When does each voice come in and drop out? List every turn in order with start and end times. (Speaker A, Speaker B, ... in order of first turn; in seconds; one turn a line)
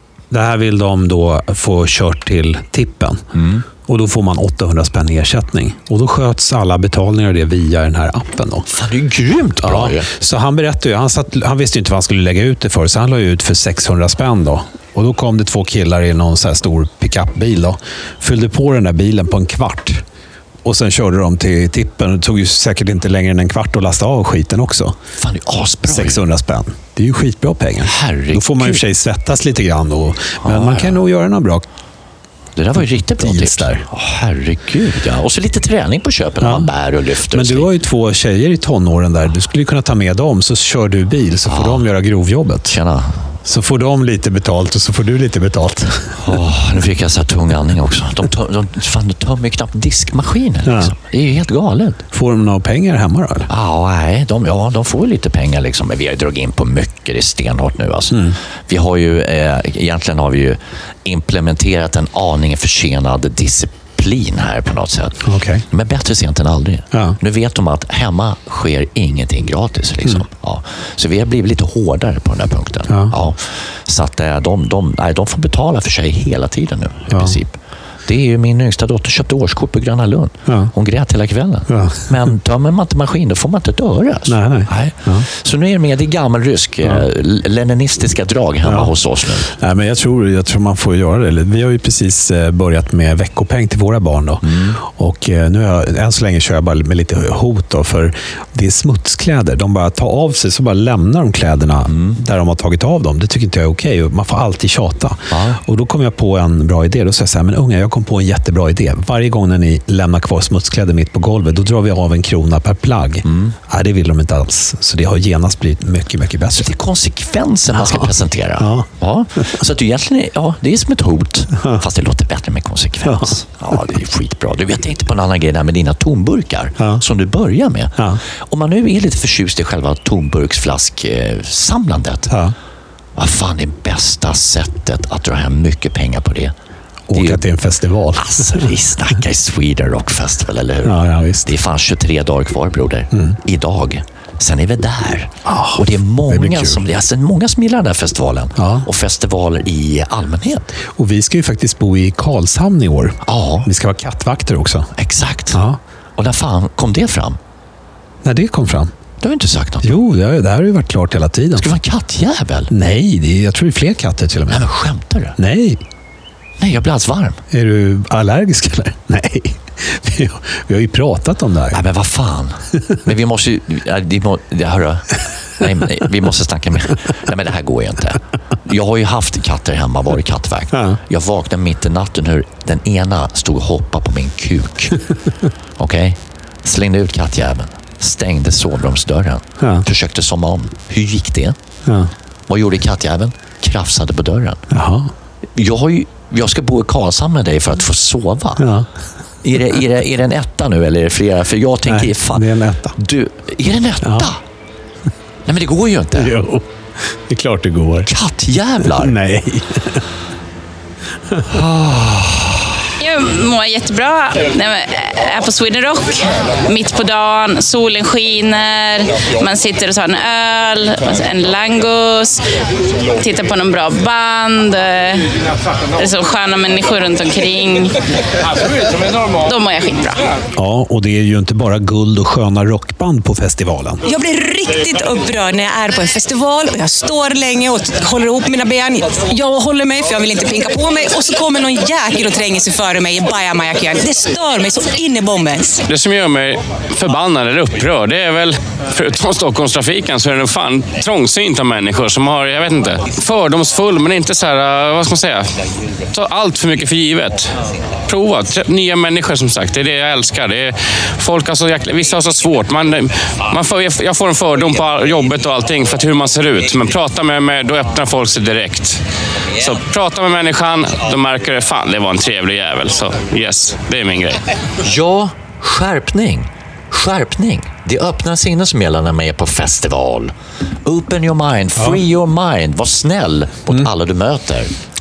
Speaker A: 0.3-3.2
Speaker B: 3.3-3.7
Speaker A: 3.8-8.7
Speaker B: 8.7-10.1
Speaker A: 9.6-20.0
Speaker A: 20.6-25.0
Speaker B: 25.2-26.2
Speaker A: 25.9-31.7
Speaker B: 27.8-28.8
Speaker B: 30.4-31.0
Speaker B: 32.6-37.7
Speaker A: 33.2-33.9
Speaker A: 36.4-36.7
Speaker A: 37.3-42.8
Speaker B: 41.5-41.9
Speaker B: 42.7-43.3
Speaker A: 43.5-46.2
Speaker B: 46.2-52.0
Speaker A: 50.6-50.9
Speaker A: 52.1-53.5
Speaker B: 53.5-89.5
Speaker A: 58.1-58.4
Speaker A: 65.2-65.6
Speaker A: 66.9-67.2
Speaker A: 72.9-73.1
Speaker A: 80.5-80.7
Speaker A: 81.7-82.2
Speaker A: 84.3-85.3
Speaker A: 88.7-88.9
Speaker A: 89.5-116.7
Speaker B: 94.4-94.8
Speaker B: 101.9-102.2
Speaker B: 105.3-105.6
Speaker B: 113.2-113.5
Speaker B: 116.5-132.3
Speaker A: 117.7-118.9
Speaker A: 123.0-123.3
Speaker A: 132.3-132.5
Speaker B: 133.2-136.5
Speaker A: 137.1-138.7
Speaker B: 137.1-137.4
Speaker B: 138.2-150.7
Speaker A: 140.8-141.5
Speaker A: 145.5-146.8
Speaker A: 148.6-148.9
Speaker A: 151.0-154.9
Speaker B: 153.2-153.7
Speaker B: 155.0-155.6
Speaker A: 155.5-155.8
Speaker B: 156.2-157.4
Speaker A: 158.2-158.9
Speaker B: 159.2-159.9
Speaker A: 159.8-161.7
Speaker B: 161.6-162.7
Speaker A: 162.7-164.6
Speaker B: 164.5-165.4
Speaker A: 165.4-165.8
Speaker B: 166.6-167.4
Speaker A: 167.5-171.8
Speaker B: 171.7-185.0
Speaker A: 180.7-181.0
Speaker B: 185.8-191.6
Speaker A: 191.9-192.1
Speaker B: 192.5-194.7
Speaker A: 194.7-195.1
Speaker B: 195.6-198.7
Speaker A: 198.6-198.9
Speaker B: 199.4-204.4
Speaker A: 201.9-203.0
Speaker A: 204.0-204.3
Speaker B: 205.5-206.3
Speaker A: 206.2-208.1
Speaker B: 208.1-209.2
Speaker A: 208.9-210.1
Speaker A: 211.3-211.6
Speaker B: 211.5-212.7
Speaker C: 213.0-222.4
Speaker C: 223.1-225.3
Speaker C: 226.0-228.0
Speaker C: 229.4-230.2
Speaker A: 230.6-234.1
Speaker D: 234.1-245.8
Speaker E: 245.9-255.5
Speaker E: 256.1-257.5
Speaker E: 258.1-269.0
Speaker E: 269.6-274.4
Speaker B: 274.8-280.3
Speaker B: 280.9-284.7